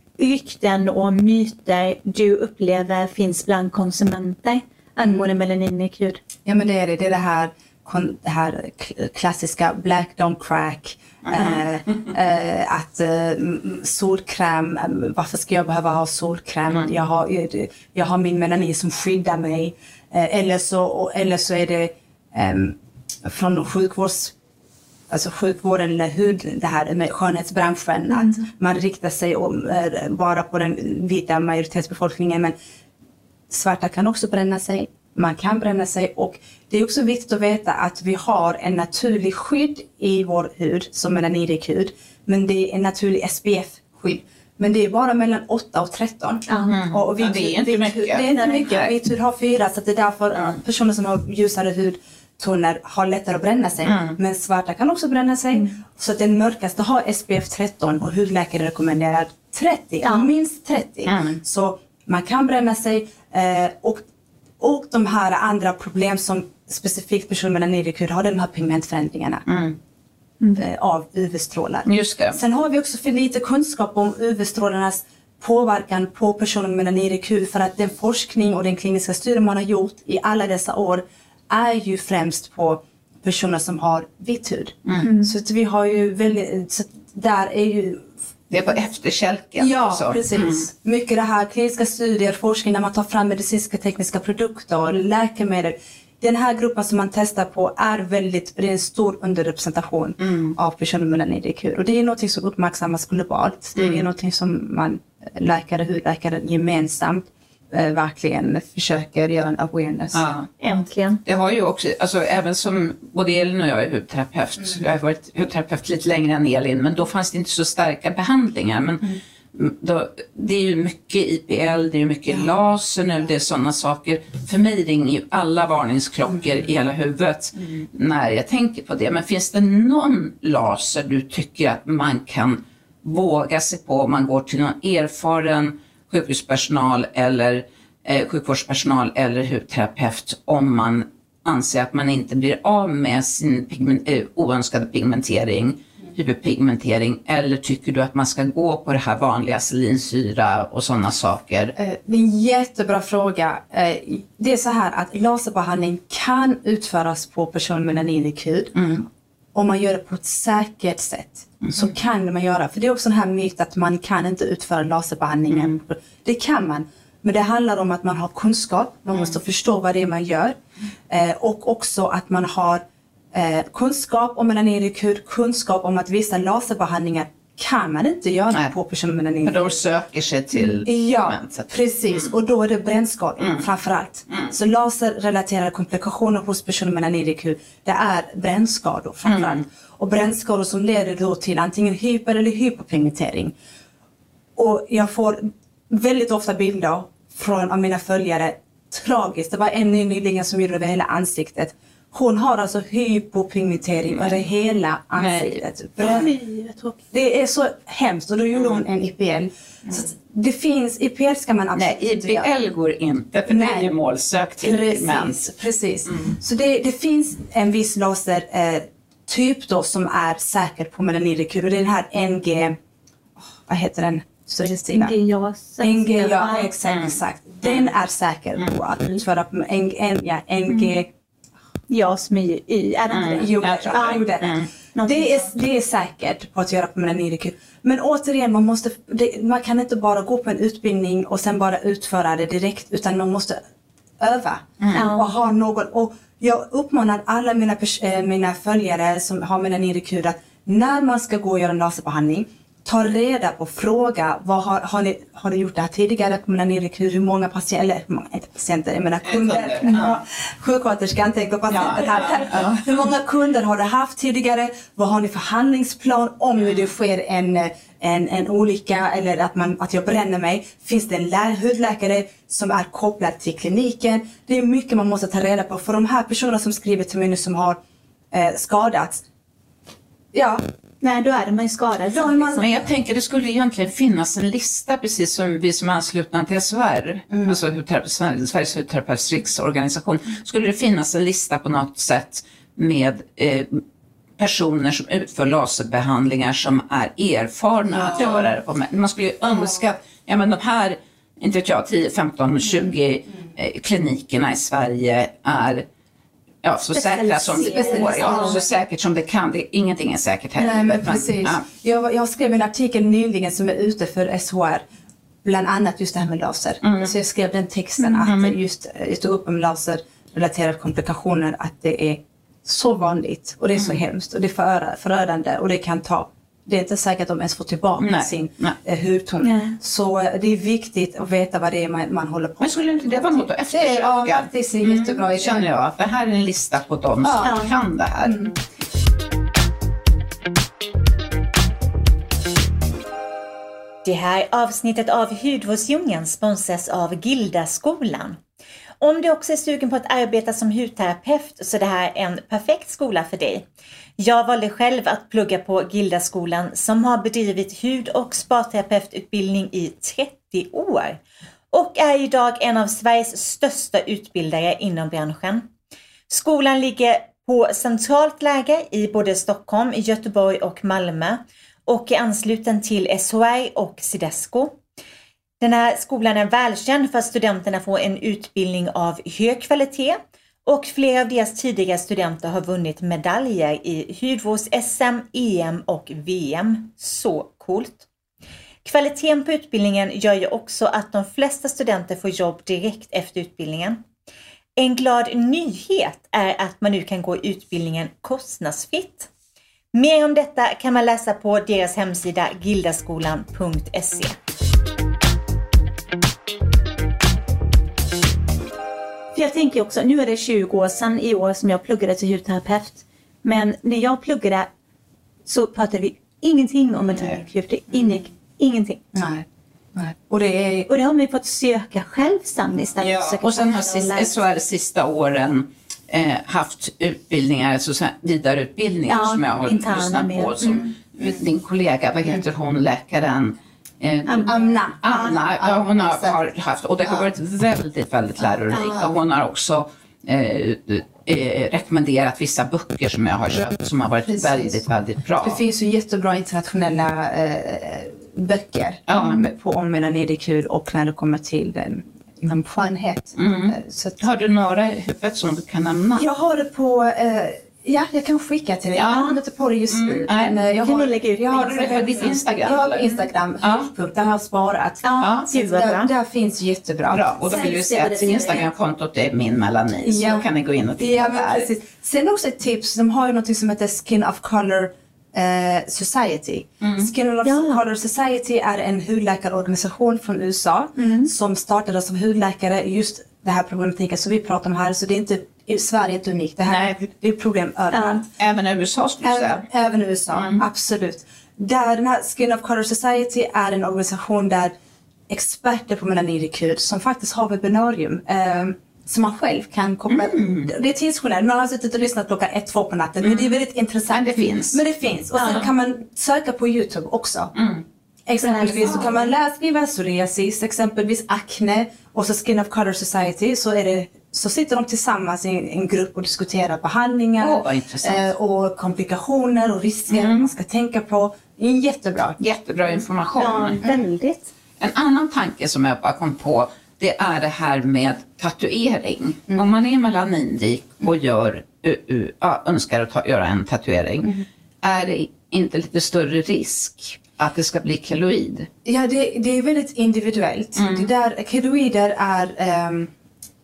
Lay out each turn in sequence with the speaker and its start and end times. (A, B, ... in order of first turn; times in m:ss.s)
0:00.2-0:06.2 A
0:06.4-0:24.3 B
0:11.2-0:11.6 C
0:25.1-0:32.5 B
0:28.1-0:28.4 A
0:33.5-1:04.0 B
0:46.5-0:46.8 A
0:46.7-0:48.9 C
0:48.4-0:48.7 A
0:53.8-0:54.2 C
1:01.0-1:01.4 C
1:04.6-1:09.4 B
1:09.4-1:09.8 C
1:10.6-1:28.1 B
1:11.8-1:12.4 C
1:25.0-1:25.3 A
1:28.5-1:30.7 C
1:29.6-1:50.2 B
1:40.2-1:40.5 C
1:43.8-1:44.0 C
1:50.1-2:31.7 C
1:50.6-1:51.2 A
2:31.8-2:39.0 B
2:38.8-2:39.0 C
2:39.5-2:50.6 B
2:41.6-2:41.9 C
2:51.1-2:59.7 B
2:59.4-3:01.7 C
3:00.8-3:13.5 B
3:09.2-3:09.6 C
3:14.6-3:26.4 B
3:25.2-3:25.6 C
3:26.2-3:27.0 A
3:27.0-3:32.5 B
3:31.7-3:35.4 C
3:33.5-3:33.9 B
3:34.6-3:42.8 B
3:43.6-3:45.1 B
3:44.9-3:46.7 A
3:45.8-3:51.1 B
3:51.9-3:55.5 A
3:53.1-3:54.7 C
3:53.2-4:03.6 B
4:04.2-4:37.8 B
4:04.8-4:05.0 C
4:04.9-4:05.3 A
4:19.2-4:20.2 C
4:19.8-4:20.1 A
4:21.7-4:22.8 C
4:38.3-4:39.2 B
4:40.3-4:40.6 B
4:41.0-4:42.7 A
4:42.2-4:42.8 B
4:42.6-4:53.8 C
4:47.3-4:47.6 B
4:54.4-5:05.8 C
4:57.9-4:58.3 B
4:58.2-4:58.5 A
5:06.6-5:11.6 C
5:06.9-5:08.6 A
5:07.6-5:08.6 B
5:10.6-5:14.8 B
5:15.4-5:35.7 B
5:16.8-5:17.1 C
5:18.2-5:18.5 C
5:28.0-5:28.8 C
5:29.4-5:29.8 A
5:32.6-5:38.4 C
5:37.2-5:37.6 B
5:37.4-5:37.7 A
5:38.2-5:38.5 B
5:44.0-5:48.4 D
5:49.0-5:53.6 D
5:54.2-6:05.7 D
6:06.3-6:14.8 D
6:15.6-6:28.0 D
6:28.8-6:34.0 D
6:34.8-6:39.3 D
6:39.9-6:44.4 D
6:49.3-6:54.7 A
6:55.5-6:59.0 A
6:59.1-7:00.9 B
7:00.9-7:04.4 A
7:03.0-7:25.6 C
7:09.1-7:10.9 A
7:14.3-7:14.5 A
7:14.4-7:16.4 B
7:18.7-7:19.1 A
7:24.3-7:24.8 B
7:25.4-7:34.2 B
7:29.1-7:29.4 C
7:33.4-7:36.2 C
7:36.2-7:48.4 B
7:38.9-7:39.2 C
7:39.1-7:39.4 A
7:39.9-7:40.6 C
7:40.8-7:42.3 A
7:41.6-7:43.9 C
7:45.0-7:46.1 A
7:45.2-7:45.5 C
7:47.1-7:51.7 C
7:47.4-7:48.6 A
7:50.0-7:50.4 B
7:51.0-8:08.2 B
7:56.8-7:57.1 C
7:57.4-7:57.8 A
8:01.0-8:01.3 A
8:06.7-8:07.0 C
8:07.9-8:08.2 A
8:08.4-8:09.6 C
8:09.2-8:14.7 B
8:10.3-8:10.6 C
8:15.3-8:27.5 B
8:20.1-8:20.7 C
8:24.1-8:24.8 C
8:27.6-8:27.8 C
8:28.3-8:42.4 B
8:28.4-8:29.3 A
8:37.4-8:38.3 C
8:40.1-8:40.5 C
8:42.4-8:43.8 C
8:43.4-8:44.5 A
8:44.8-8:58.7 C
8:58.8-9:03.1 B
9:00.8-9:01.1 C